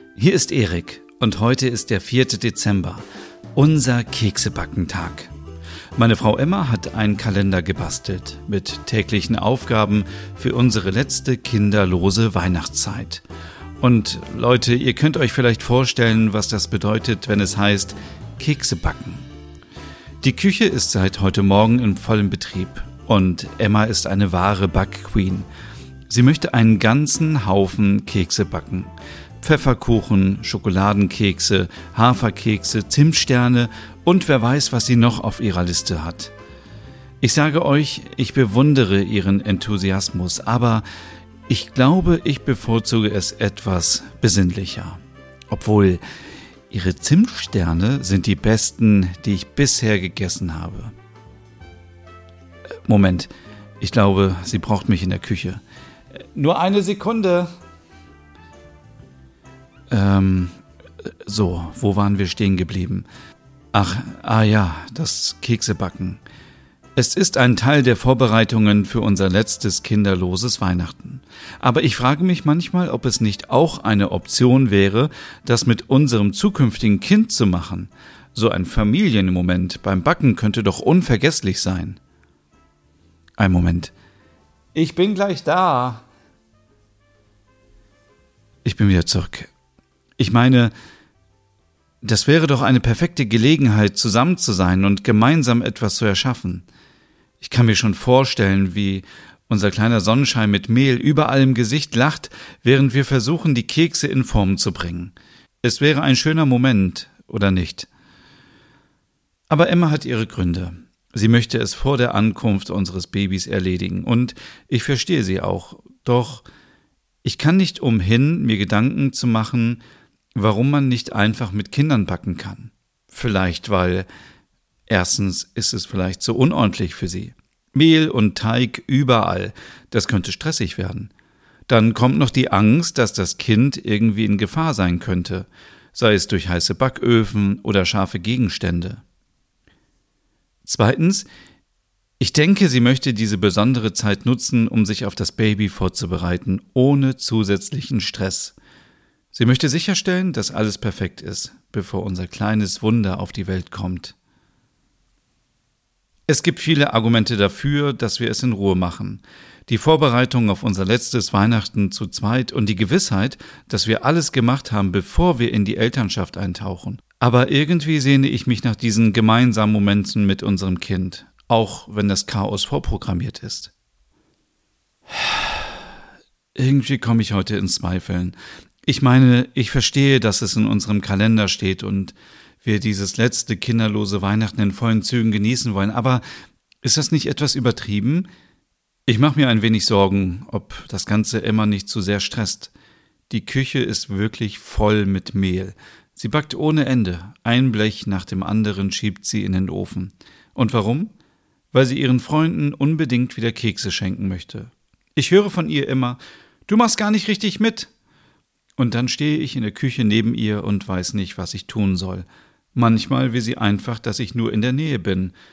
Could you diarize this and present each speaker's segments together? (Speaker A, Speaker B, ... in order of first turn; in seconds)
Speaker A: 0.1-3.0, 3.5-5.3, 6.0-13.2, 13.8-19.3, 20.2-25.5, 26.1-36.3, 37.2-40.9, 41.5-46.0, 46.7-50.9, 52.9-55.6, 56.4-57.5, 59.9-60.6, 61.2-63.1, 63.7-66.2, 67.0-82.0, 83.4-83.9, 84.8-86.0, 88.6-89.5, 90.2-90.7, 92.0-96.7, 97.4-107.9, 109.5-116.5, 117.2-119.8, 120.3-124.1, 124.9-131.1, 131.7-139.0, 140.6-141.3, 142.2-148.6, 149.3-154.2, 156.3-173.7, 175.1-175.7, 176.6-186.2, 186.8-188.3, 189.1-192.7, 193.3-201.1, 201.7-207.9, 208.8-215.3